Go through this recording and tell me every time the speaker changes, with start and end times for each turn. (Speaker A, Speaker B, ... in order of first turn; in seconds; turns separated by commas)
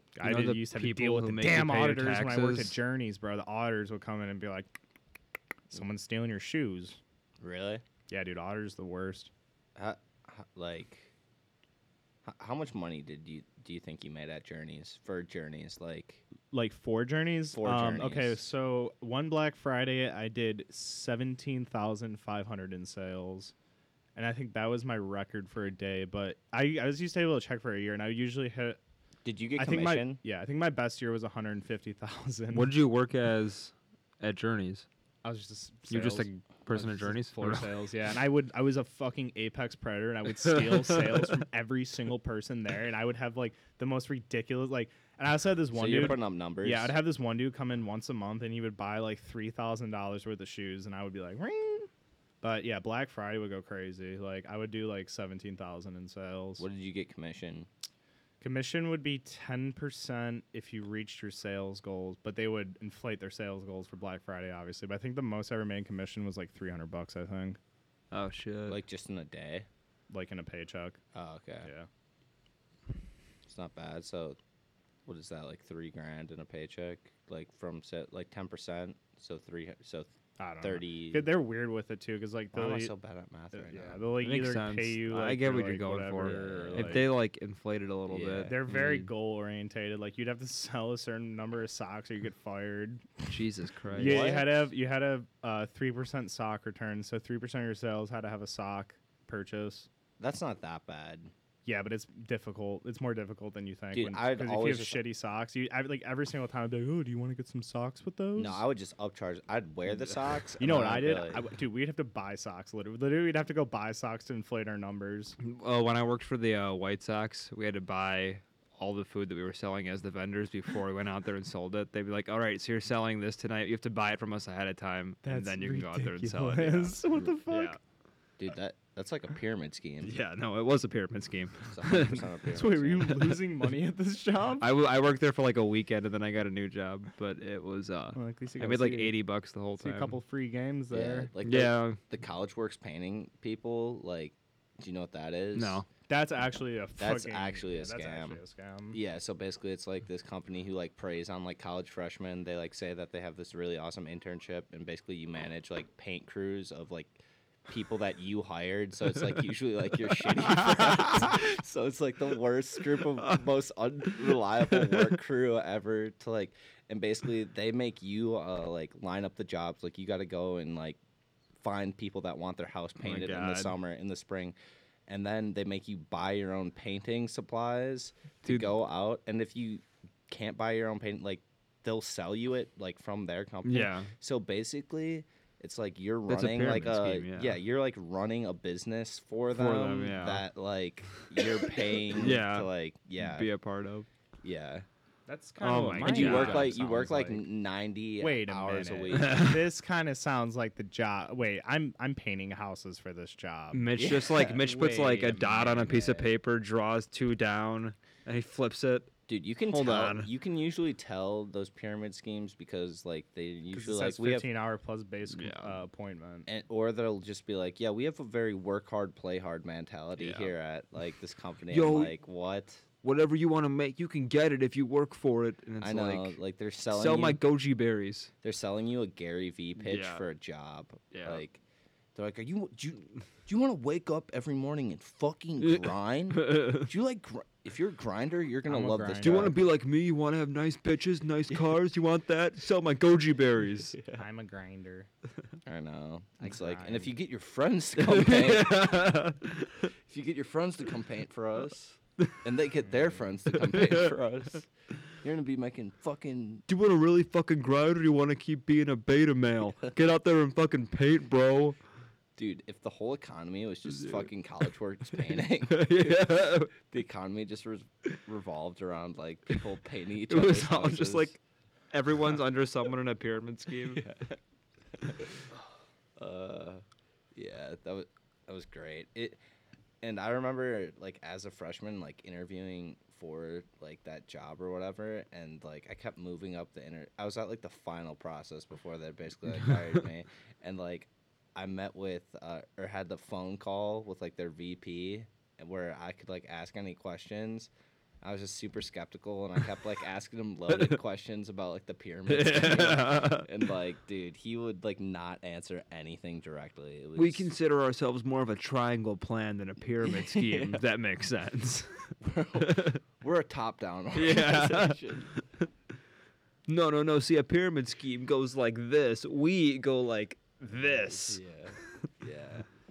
Speaker A: 0.1-4.7, Speaker B: 0.2-2.8, Speaker A: 5.7-7.0, Speaker C: 7.4-7.8, Speaker A: 8.1-9.3, Speaker C: 9.8-11.1, Speaker C: 12.2-16.2, Speaker A: 16.5-23.5, Speaker C: 17.5-18.4, Speaker A: 24.1-28.8, Speaker C: 29.2-30.2, Speaker A: 29.6-32.7, Speaker B: 32.5-34.9, Speaker A: 35.2-51.9, Speaker B: 35.9-37.7, Speaker B: 40.7-41.2, Speaker C: 45.7-47.0, Speaker A: 52.4-56.6, Speaker C: 56.6-57.7, Speaker A: 58.4-67.6, Speaker B: 68.1-68.8, Speaker C: 68.7-69.7, Speaker A: 70.1-71.0, Speaker C: 71.1-71.7, Speaker A: 71.6-71.9, Speaker C: 73.5-74.4, Speaker C: 75.1-81.3, Speaker A: 80.4-82.9, Speaker C: 82.5-84.0, Speaker A: 83.5-87.1, Speaker B: 84.2-89.1, Speaker C: 86.3-87.1, Speaker C: 88.1-88.5, Speaker A: 88.5-93.4, Speaker B: 93.3-94.3, Speaker A: 93.9-99.9, Speaker C: 94.0-94.6, Speaker C: 100.2-101.3, Speaker A: 101.6-108.6, Speaker C: 103.9-105.0, Speaker C: 108.4-111.4, Speaker A: 110.6-115.4, Speaker B: 115.4-127.8, Speaker A: 125.2-127.8, Speaker C: 128.4-130.1, Speaker B: 130.0-132.3, Speaker C: 131.7-133.1, Speaker A: 132.5-134.7, Speaker B: 133.1-133.4, Speaker B: 134.6-140.1, Speaker A: 138.1-139.2, Speaker A: 139.8-141.3, Speaker C: 140.9-145.8, Speaker B: 141.4-142.0, Speaker B: 145.5-145.9, Speaker A: 146.1-149.0, Speaker C: 147.0-148.4, Speaker C: 148.9-171.0, Speaker B: 160.6-161.1, Speaker B: 164.8-165.1, Speaker C: 171.6-174.6, Speaker B: 173.0-173.8, Speaker C: 175.1-193.5, Speaker B: 178.4-178.7, Speaker B: 183.6-184.1, Speaker B: 186.3-187.6, Speaker B: 189.5-190.4, Speaker B: 191.2-194.1, Speaker C: 194.4-194.9, Speaker A: 195.3-197.4, Speaker B: 195.6-196.7, Speaker C: 196.0-199.4, Speaker A: 198.2-203.9, Speaker B: 199.1-199.6, Speaker B: 203.7-209.1, Speaker C: 204.0-204.6, Speaker A: 204.4-206.0, Speaker C: 205.8-206.3, Speaker C: 209.3-214.5, Speaker B: 209.7-210.3, Speaker A: 213.7-216.5, Speaker B: 215.3-215.8, Speaker C: 216.5-222.8, Speaker B: 220.2-220.5, Speaker B: 221.7-222.1, Speaker B: 223.0-226.4, Speaker C: 225.8-227.4, Speaker B: 226.9-228.3, Speaker C: 228.4-231.6, Speaker B: 229.8-230.2, Speaker B: 231.1-231.4, Speaker C: 232.1-239.6, Speaker B: 235.6-236.9, Speaker A: 238.7-239.5, Speaker B: 239.2-244.0, Speaker A: 244.1-245.1, Speaker C: 245.7-249.0, Speaker A: 246.4-247.1, Speaker B: 248.0-249.9, Speaker C: 250.0-256.6, Speaker B: 253.5-254.1, Speaker B: 256.7-261.8, Speaker C: 262.4-271.3, Speaker B: 265.6-266.7, Speaker B: 270.3-271.4, Speaker B: 271.9-274.1, Speaker C: 273.9-274.4, Speaker C: 275.0-275.3, Speaker C: 276.2-276.8, Speaker C: 277.4-279.4, Speaker C: 280.0-297.7, Speaker C: 298.2-307.5, Speaker B: 302.3-303.5, Speaker B: 307.1-313.0, Speaker C: 310.2-310.8, Speaker C: 312.2-315.3, Speaker B: 314.1-315.6, Speaker B: 316.7-321.4, Speaker C: 320.9-322.6